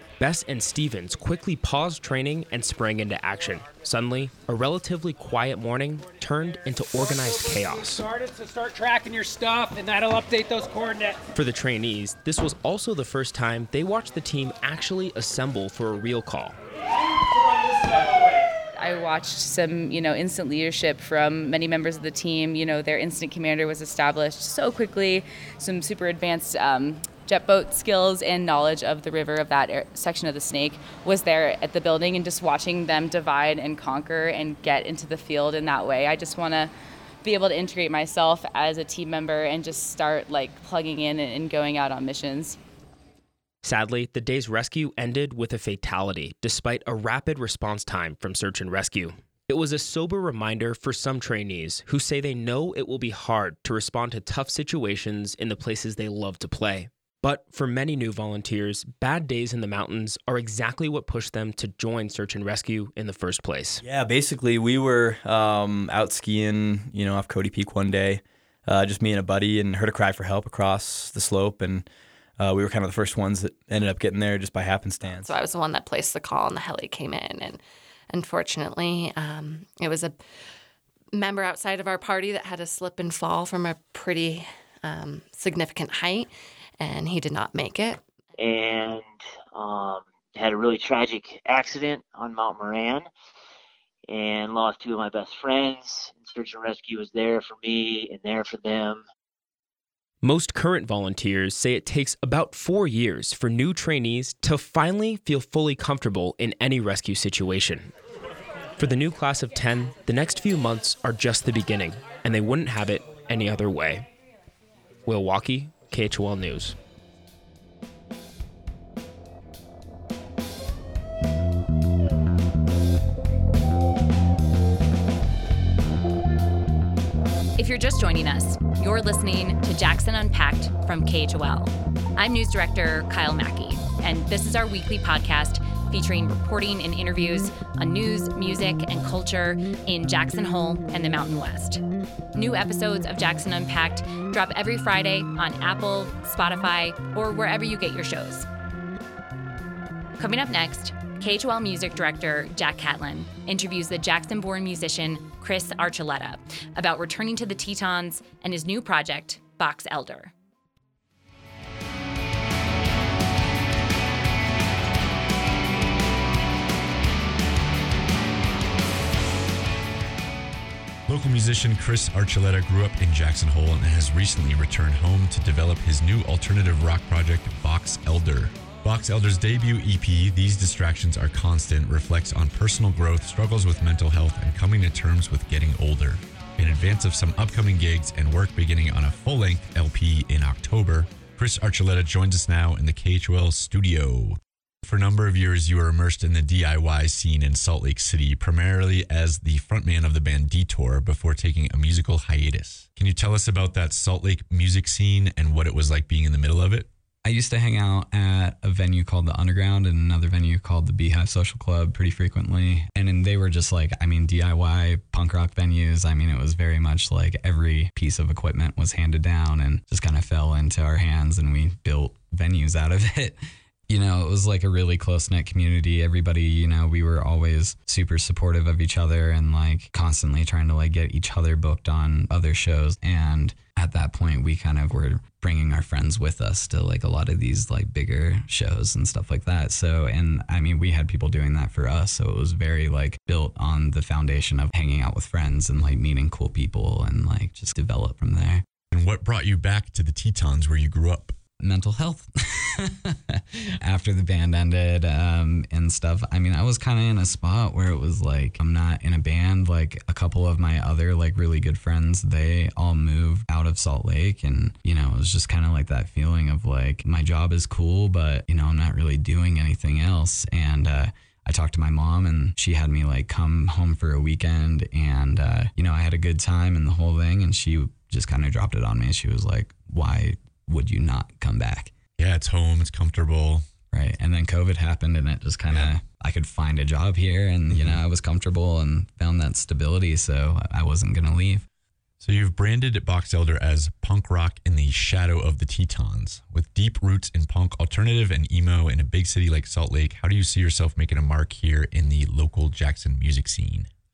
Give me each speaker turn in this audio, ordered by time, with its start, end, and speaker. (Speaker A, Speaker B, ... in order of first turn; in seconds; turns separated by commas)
Speaker A: 0.2-8.0, Speaker B: 7.0-11.2, Speaker A: 11.3-16.6, Speaker B: 17.2-18.2, Speaker C: 18.8-36.7, Speaker C: 37.2-42.6, Speaker A: 43.6-63.8, Speaker D: 63.8-71.9, Speaker D: 72.4-75.3, Speaker E: 75.0-80.2, Speaker E: 81.1-86.3, Speaker E: 86.8-88.0, Speaker F: 88.4-93.1, Speaker F: 94.1-99.0, Speaker A: 100.2-107.9, Speaker A: 108.8-114.1, Speaker A: 115.1-116.8, Speaker G: 127.6-141.8, Speaker G: 142.3-148.5, Speaker G: 150.2-160.3, Speaker H: 171.1-206.9, Speaker I: 207.2-223.4, Speaker I: 223.9-248.7, Speaker H: 248.9-251.4, Speaker I: 251.6-281.9, Speaker H: 282.2-283.7, Speaker I: 283.9-291.7, Speaker H: 292.2-303.9